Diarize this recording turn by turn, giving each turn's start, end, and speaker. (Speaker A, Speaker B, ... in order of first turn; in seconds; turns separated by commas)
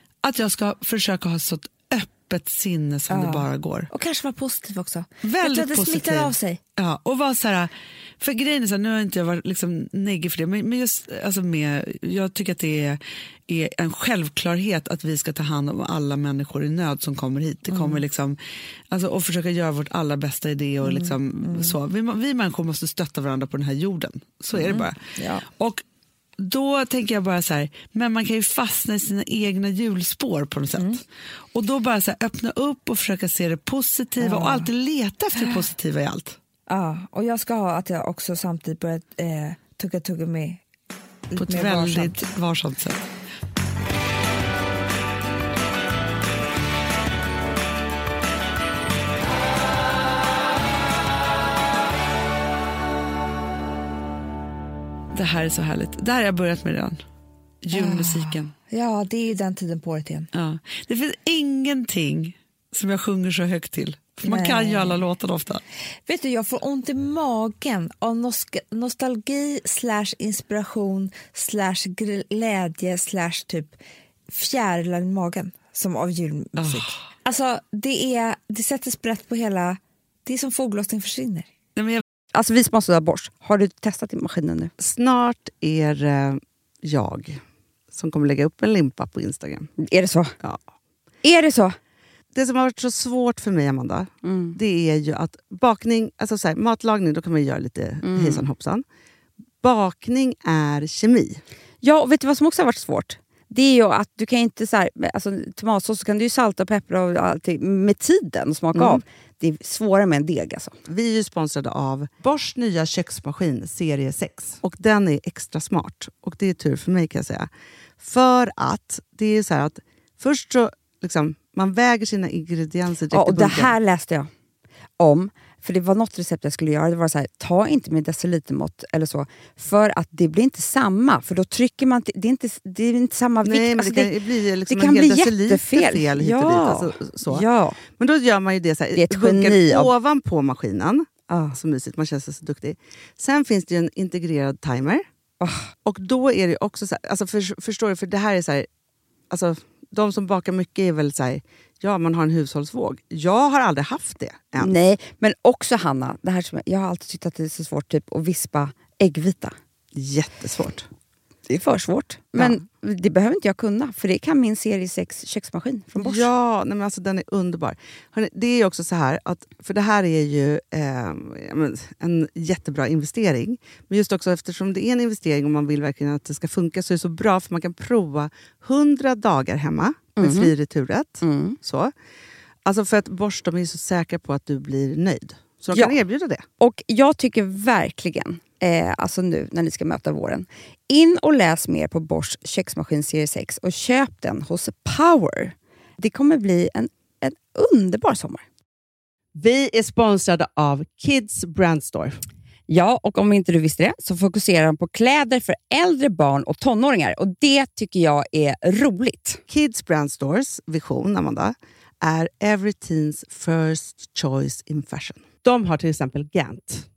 Speaker A: 0.2-3.9, Speaker B: 3.1-6.6, Speaker A: 5.2-18.4, Speaker B: 17.7-18.0, Speaker A: 18.9-25.0, Speaker B: 20.8-21.8, Speaker B: 24.5-25.4, Speaker A: 25.5-25.8, Speaker A: 26.4-31.0, Speaker A: 31.5-36.4, Speaker B: 34.2-34.7, Speaker B: 36.7-40.6, Speaker B: 41.3-42.2, Speaker A: 41.3-43.0, Speaker A: 55.1-57.0, Speaker A: 57.6-58.5, Speaker B: 57.7-60.3, Speaker A: 60.3-65.6, Speaker B: 64.2-65.0, Speaker B: 66.1-73.8, Speaker B: 74.3-81.5, Speaker A: 76.5-77.1, Speaker A: 81.8-82.0, Speaker C: 82.3-84.7, Speaker D: 84.8-89.7, Speaker C: 89.8-90.3, Speaker C: 91.2-91.7, Speaker D: 92.3-98.8, Speaker C: 94.2-94.6, Speaker C: 98.0-98.4, Speaker D: 99.6-101.4, Speaker C: 101.8-110.8, Speaker D: 108.8-109.0, Speaker D: 110.9-117.5, Speaker D: 118.0-123.7, Speaker C: 123.1-124.3, Speaker C: 125.0-134.1, Speaker D: 133.4-145.0, Speaker C: 134.7-137.8, Speaker C: 138.9-139.9, Speaker C: 141.3-141.6, Speaker C: 145.4-145.7, Speaker D: 145.8-148.7, Speaker D: 149.3-154.7, Speaker C: 154.6-159.5, Speaker D: 159.9-160.8, Speaker C: 161.5-166.3, Speaker D: 162.3-162.6, Speaker D: 166.0-181.9, Speaker C: 180.2-180.5, Speaker C: 181.2-181.6, Speaker D: 182.6-186.4, Speaker C: 185.7-186.0, Speaker C: 186.6-198.4, Speaker D: 199.3-202.2, Speaker C: 202.7-209.4, Speaker D: 209.5-216.9